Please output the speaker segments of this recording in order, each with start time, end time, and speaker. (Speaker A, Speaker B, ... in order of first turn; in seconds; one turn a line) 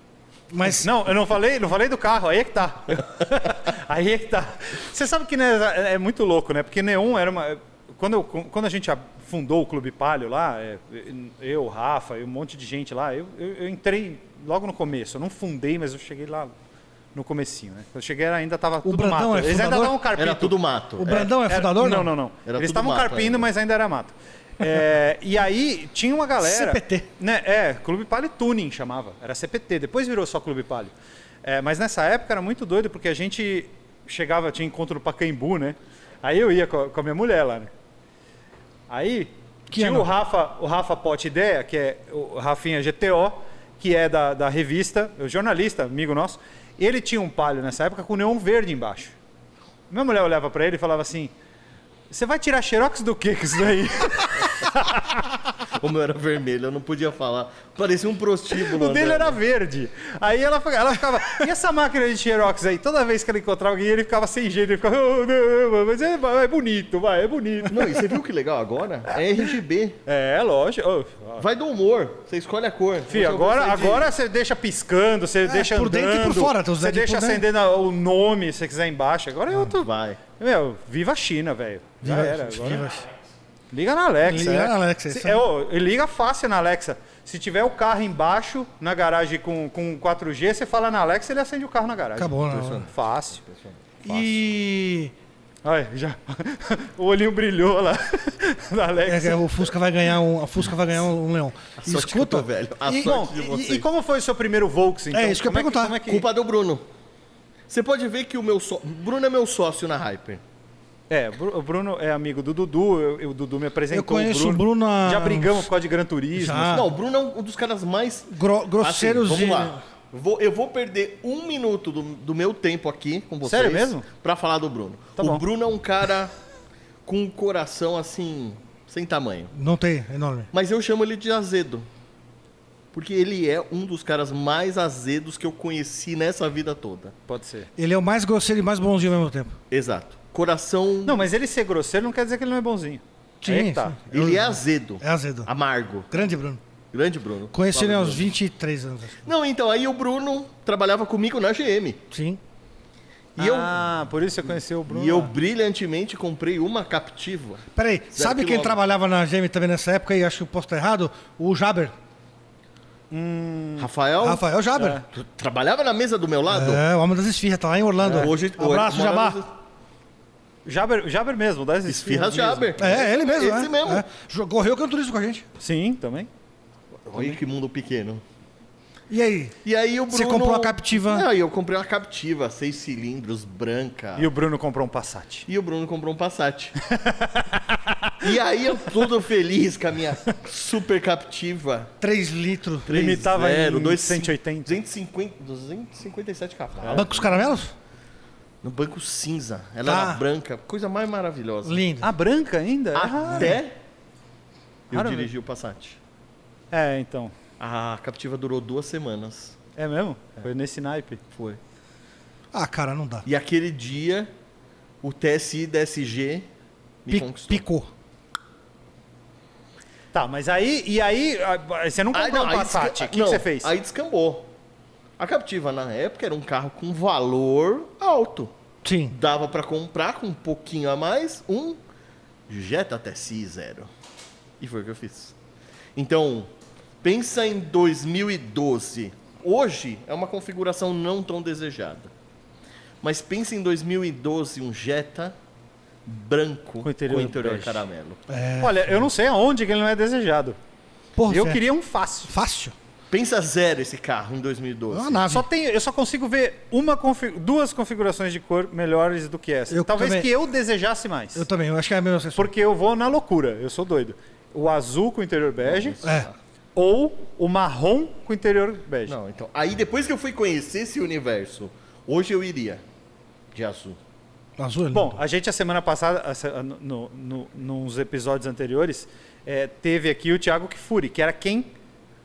Speaker A: 0.5-0.9
Speaker B: 0.6-16.5
Speaker B: 17.1-30.9
Speaker A: 18.8-19.9
Speaker C: 20.2-21.2
Speaker A: 21.0-22.1
Speaker C: 22.4-23.4
Speaker A: 26.4-27.1
Speaker B: 31.4-37.7
Speaker B: 38.9-49.1
Speaker A: 39.7-40.1
Speaker B: 49.9-51.3
Speaker B: 52.1-55.2
Speaker C: 55.8-59.4
Speaker B: 58.5-67.9
Speaker C: 67.7-70.0
Speaker B: 70.0-71.4
Speaker C: 71.4-74.1
Speaker B: 73.1-82.9
Speaker A: 75.4-77.4
Speaker C: 79.6-80.2
Speaker A: 82.0-83.0
Speaker B: 83.7-93.4
Speaker A: 84.2-85.4
Speaker A: 92.2-92.9
Speaker C: 92.5-93.8
Speaker A: 94.0-95.1
Speaker B: 95.6-99.7
Speaker A: 99.0-102.5
Speaker C: 101.8-103.8
Speaker B: 102.9-106.2
Speaker A: 105.1-105.9
Speaker C: 106.0-106.8
Speaker C: 107.7-110.4
Speaker B: 111.1-116.8
Speaker A: 113.9-115.7
Speaker A: 116.3-116.9
Speaker C: 116.7-126.3
Speaker A: 118.3-119.8
Speaker B: 123.4-124.0
Speaker B: 125.2-125.4
Speaker C: 127.0-129.5
Speaker A: 129.5-130.5
Speaker C: 130.5-131.9
Speaker C: 132.9-137.1
Speaker B: 137.3-137.7
Speaker A: 137.8-139.5
Speaker C: 139.7-141.2
Speaker B: 141.0-144.0
Speaker A: 143.4-145.5
Speaker C: 144.1-146.1
Speaker A: 146.1-146.6
Speaker C: 146.9-148.3
Speaker A: 147.5-149.3
Speaker C: 149.2-152.0
Speaker A: 152.1-152.4
Speaker C: 153.3-153.8
Speaker B: 153.4-155.3
Speaker C: 154.9-158.8
Speaker A: 157.7-161.9
Speaker B: 163.1-163.9
Speaker C: 163.8-164.4
Speaker A: 164.2-165.0
Speaker B: 164.8-165.0
Speaker C: 165.1-166.8
Speaker A: 166.5-169.4
Speaker B: 168.0-168.3
Speaker C: 168.0-169.5
Speaker B: 170.6-172.7
Speaker C: 171.9-174.1
Speaker A: 172.8-175.4
Speaker B: 175.6-176.3
Speaker C: 177.1-178.2
Speaker A: 179.1-179.6
Speaker C: 179.6-184.3
Speaker A: 180.1-181.3
Speaker B: 184.2-185.4
Speaker C: 185.5-186.7
Speaker B: 186.8-188.2
Speaker C: 188.2-191.9
Speaker A: 192.0-192.9
Speaker C: 192.9-197.3
Speaker B: 192.9-194.8
Speaker A: 196.9-197.7
Speaker C: 198.6-201.8
Speaker A: 199.8-200.2
Speaker A: 201.6-202.1
Speaker B: 202.0-203.6
Speaker C: 202.9-203.7
Speaker C: 204.9-206.0
Speaker B: 204.9-205.3
Speaker B: 206.7-207.3
Speaker C: 207.6-209.6
Speaker B: 209.8-211.2
Speaker C: 211.3-211.6
Speaker A: 212.5-213.2
Speaker C: 213.2-214.3
Speaker C: 215.0-216.5
Speaker C: 217.0-217.6
Speaker A: 217.1-217.9
Speaker B: 220.1-223.7
Speaker C: 222.1-224.5
Speaker C: 225.2-228.5
Speaker A: 228.8-229.1
Speaker C: 229.1-231.8
Speaker C: 232.5-233.9
Speaker C: 234.6-235.3
Speaker C: 235.9-236.5
Speaker C: 237.0-242.1
Speaker C: 243.0-245.3
Speaker C: 246.1-248.2
Speaker B: 246.8-247.8
Speaker A: 248.3-249.1
Speaker B: 248.6-250.6
Speaker A: 251.2-251.6
Speaker B: 251.3-252.3
Speaker A: 252.3-252.7
Speaker C: 253.1-255.2
Speaker A: 254.9-255.5
Speaker B: 255.3-261.4
Speaker A: 259.7-260.3
Speaker A: 261.4-262.5
Speaker B: 262.4-266.0
Speaker C: 265.6-266.4
Speaker A: 266.0-266.3
Speaker B: 266.8-269.1
Speaker C: 269.1-272.8
Speaker C: 273.5-274.0
Speaker A: 274.6-275.2
Speaker B: 274.9-281.7